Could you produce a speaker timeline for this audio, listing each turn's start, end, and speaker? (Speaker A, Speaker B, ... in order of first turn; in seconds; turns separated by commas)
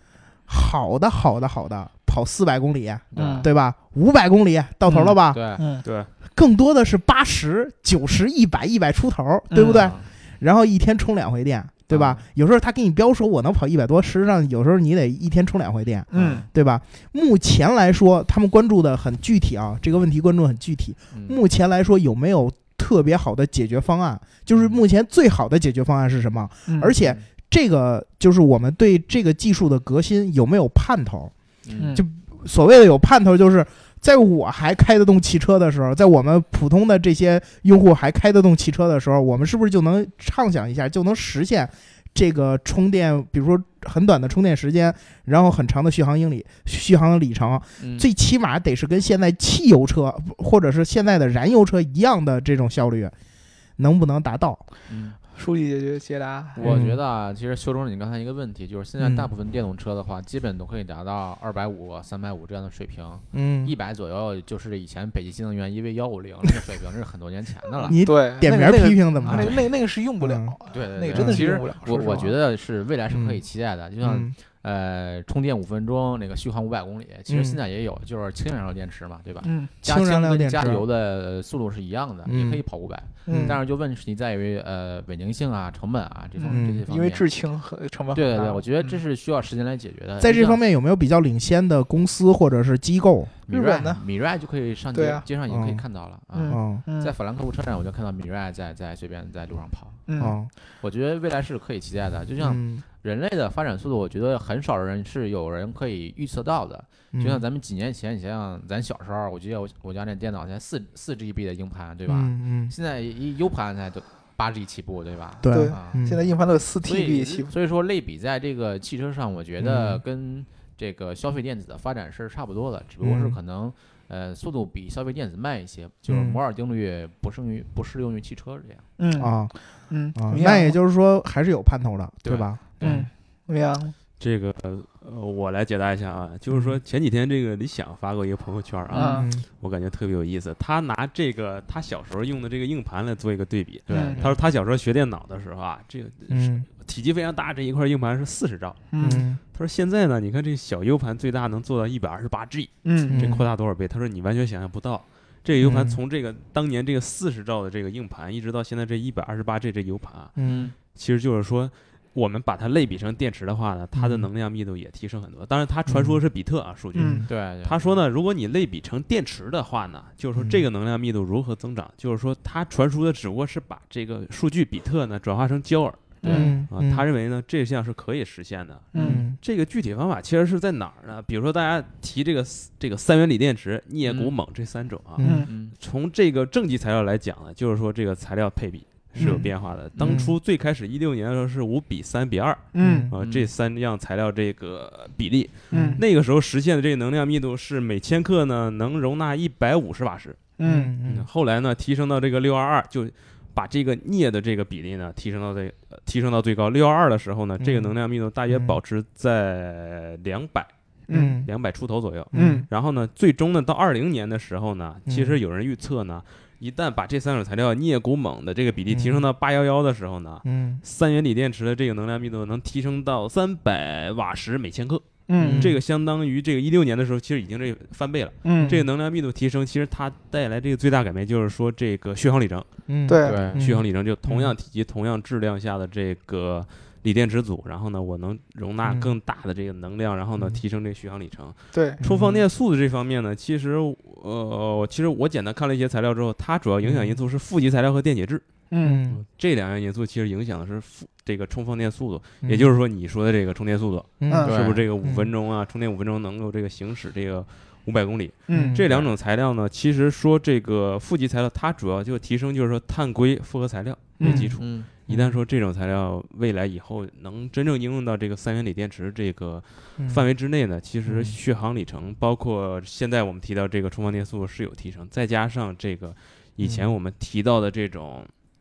Speaker A: 0.5-5.6, Speaker B: 3.1-3.5, Speaker C: 3.1-3.5, Speaker C: 4.9-5.8, Speaker B: 5.2-5.6, Speaker D: 5.8-6.1, Speaker A: 6.3-31.3, Speaker C: 9.5-9.9, Speaker B: 9.6-10.1, Speaker B: 11.9-12.2, Speaker C: 16.1-16.4, Speaker B: 16.1-16.5, Speaker B: 21.1-21.4, Speaker B: 24.5-24.8, Speaker C: 26.7-26.9, Speaker B: 31.6-32.0, Speaker C: 31.8-32.0, Speaker A: 31.9-53.1, Speaker B: 47.8-48.1, Speaker A: 53.8-54.6, Speaker B: 54.9-55.2, Speaker C: 55.3-56.8, Speaker B: 56.6-68.0, Speaker A: 56.6-57.0, Speaker A: 59.0-59.3, Speaker A: 63.3-63.7, Speaker A: 67.8-69.7, Speaker C: 68.0-72.3, Speaker B: 69.3-69.7, Speaker A: 70.2-70.5, Speaker B: 70.7-87.2, Speaker A: 71.1-71.5, Speaker A: 73.1-73.4, Speaker A: 74.0-74.3, Speaker A: 77.3-77.6, Speaker C: 79.4-79.7, Speaker A: 79.8-80.8, Speaker A: 82.2-82.6, Speaker C: 83.3-83.6, Speaker A: 83.3-83.6, Speaker C: 86.4-89.0, Speaker A: 86.5-86.8, Speaker B: 88.1-90.6, Speaker A: 90.2-93.3, Speaker B: 93.5-100.0, Speaker C: 93.5-94.0, Speaker C: 94.9-95.3, Speaker A: 95.5-95.8, Speaker C: 96.3-97.1, Speaker A: 96.5-96.8, Speaker C: 100.1-100.4, Speaker A: 100.2-100.5, Speaker B: 100.8-116.1, Speaker A: 102.4-102.8, Speaker A: 107.1-107.5, Speaker A: 112.1-112.7, Speaker A: 115.4-116.2, Speaker C: 115.5-117.5, Speaker B: 116.8-128.9, Speaker A: 119.6-120.0, Speaker A: 123.0-123.4, Speaker A: 126.1-126.4, Speaker C: 129.0-130.8, Speaker A: 129.2-129.5, Speaker A: 130.1-133.1, Speaker B: 132.2-133.1, Speaker C: 132.8-133.9, Speaker D: 134.2-148.8, Speaker A: 136.5-136.8, Speaker C: 138.9-139.3, Speaker A: 139.0-139.4, Speaker B: 143.9-144.3, Speaker C: 143.9-144.3, Speaker A: 146.3-146.7, Speaker C: 148.9-149.3, Speaker A: 149.0-149.4, Speaker D: 149.5-160.4, Speaker C: 152.8-153.2, Speaker A: 153.1-153.5, Speaker A: 155.6-156.0, Speaker A: 160.4-160.7, Speaker B: 160.4-160.8, Speaker D: 160.9-200.4, Speaker A: 163.9-164.3, Speaker A: 165.9-166.2, Speaker C: 167.0-167.2, Speaker A: 167.0-167.3, Speaker B: 167.3-168.0, Speaker A: 170.4-170.7, Speaker C: 176.2-176.6, Speaker B: 176.2-176.5, Speaker A: 176.3-177.1, Speaker C: 178.9-179.2, Speaker A: 179.0-179.4, Speaker B: 184.1-184.3, Speaker A: 185.2-185.5, Speaker C: 185.2-185.5, Speaker B: 185.4-185.8, Speaker A: 189.2-190.4, Speaker B: 190.0-190.2, Speaker C: 192.7-193.1, Speaker A: 192.8-193.1, Speaker B: 193.2-193.5, Speaker C: 195.7-196.0, Speaker A: 195.7-196.0, Speaker C: 200.6-200.9, Speaker A: 200.6-201.3, Speaker D: 201.1-210.7, Speaker A: 207.6-207.9, Speaker A: 208.5-208.8, Speaker C: 211.1-211.4, Speaker A: 211.1-211.5, Speaker D: 211.4-232.7, Speaker A: 212.3-212.7, Speaker C: 212.3-212.7, Speaker A: 215.1-215.4, Speaker A: 218.9-219.3, Speaker A: 220.4-220.8, Speaker C: 225.3-225.7, Speaker A: 225.4-225.8, Speaker C: 228.4-228.8, Speaker A: 232.9-234.5, Speaker C: 233.1-233.5, Speaker B: 233.2-233.6, Speaker D: 233.5-248.4, Speaker A: 238.8-239.1, Speaker C: 241.7-242.0, Speaker A: 242.0-242.4, Speaker A: 246.8-247.2, Speaker C: 248.7-249.0, Speaker A: 248.8-249.2, Speaker D: 249.1-278.3, Speaker A: 252.4-252.7, Speaker A: 254.2-254.5, Speaker C: 254.3-254.5, Speaker B: 254.4-254.8, Speaker A: 255.0-255.3, Speaker C: 258.5-258.8, Speaker A: 258.5-258.9, Speaker C: 264.2-264.5, Speaker A: 264.2-264.6, Speaker B: 264.6-264.9, Speaker A: 265.1-265.4, Speaker A: 270.0-270.2, Speaker A: 271.1-271.4, Speaker A: 276.6-276.9